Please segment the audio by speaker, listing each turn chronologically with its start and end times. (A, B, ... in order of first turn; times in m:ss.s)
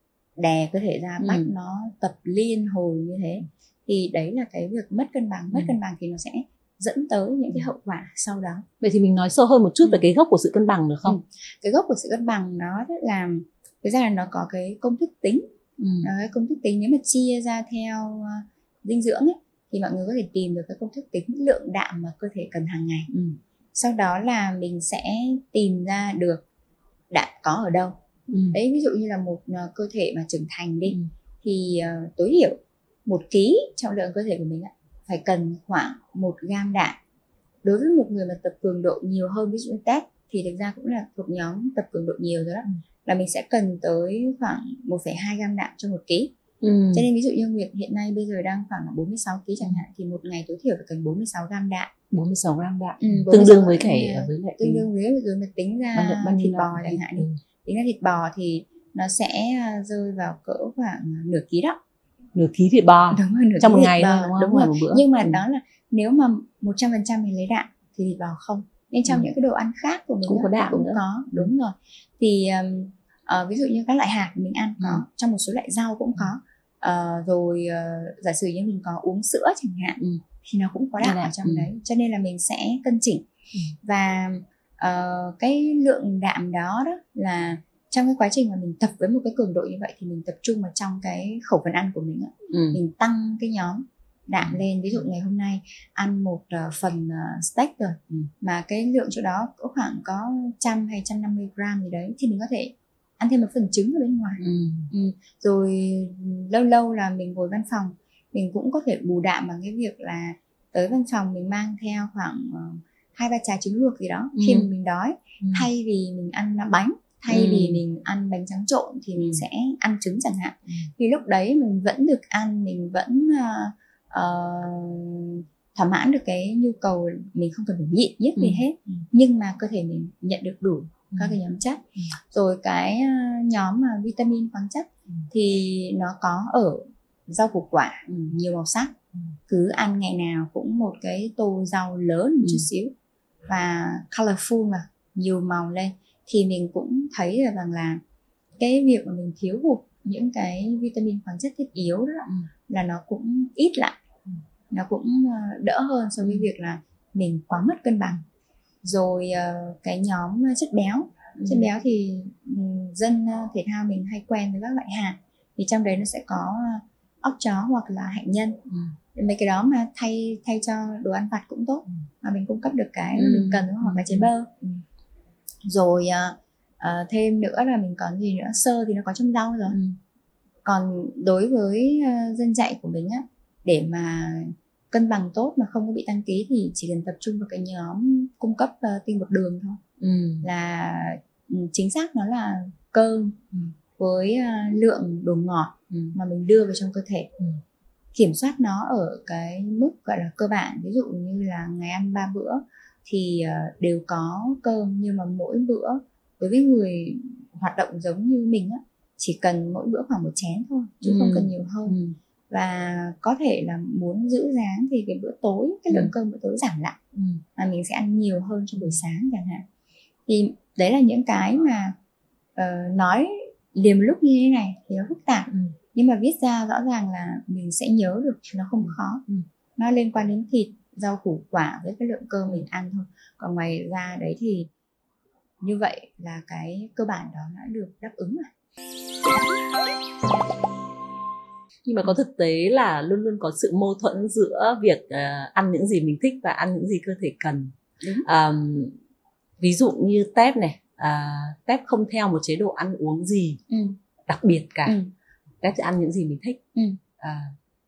0:00.4-0:08.6 A
0:01.2-0:01.5 B
0:08.8-0:11.2 B
0:11.0-0:15.5 A
0:15.8-0:16.1 B
0:16.0-0:23.1 A
0:23.1-0:23.4 B
0:23.7-0:26.4 A
0:27.1-0:28.0 A
0:28.3-0:28.6 B
0:28.5-0:37.0 A
0:37.6-0:46.3 A
0:46.6-0:47.0 B
0:46.9-0:51.9 A
0:52.1-0:54.9 B
0:53.0-1:01.8 A
0:55.9-0:57.4 B
1:02.3-1:05.4 B
1:03.1-1:23.2 A
1:10.3-1:11.5 B
1:21.0-1:21.7 B
1:23.8-2:18.9 A
1:32.5-1:32.8 B
1:44.4-1:44.9 B
1:54.4-1:54.7 B
1:55.4-1:55.7 B
1:57.3-1:57.8 B
2:08.4-2:09.0 B
2:11.1-2:11.4 B
2:19.5-2:22.9 A
2:23.5-2:28.0 A
2:28.6-2:34.0 A
2:34.7-2:38.2 A
2:38.8-2:48.6 A
2:41.4-2:41.7 B
2:49.1-2:54.5 A
2:53.2-2:54.8 B
2:55.6-2:59.8 A
2:59.7-3:00.0 B
3:00.6-3:09.8 A
3:10.0-3:10.5 B
3:10.4-3:13.4 A
3:14.0-3:17.3 A
3:18.1-3:32.0 A
3:31.0-3:32.1 B
3:32.5-3:37.0 A
3:37.1-3:37.4 B
3:37.6-3:39.6 A
3:40.3-3:41.9 A
3:42.6-3:49.2 A
3:48.9-3:49.4 B
3:49.8-3:54.7 A
3:55.6-3:58.5 A
4:01.8-4:07.7 B
4:08.0-4:08.3 A
4:08.2-4:09.0 B
4:09.6-4:13.6 B
4:13.7-4:14.0 A
4:14.3-4:15.0 B
4:14.8-4:15.1 A
4:15.6-4:16.6 B
4:17.2-4:17.5 B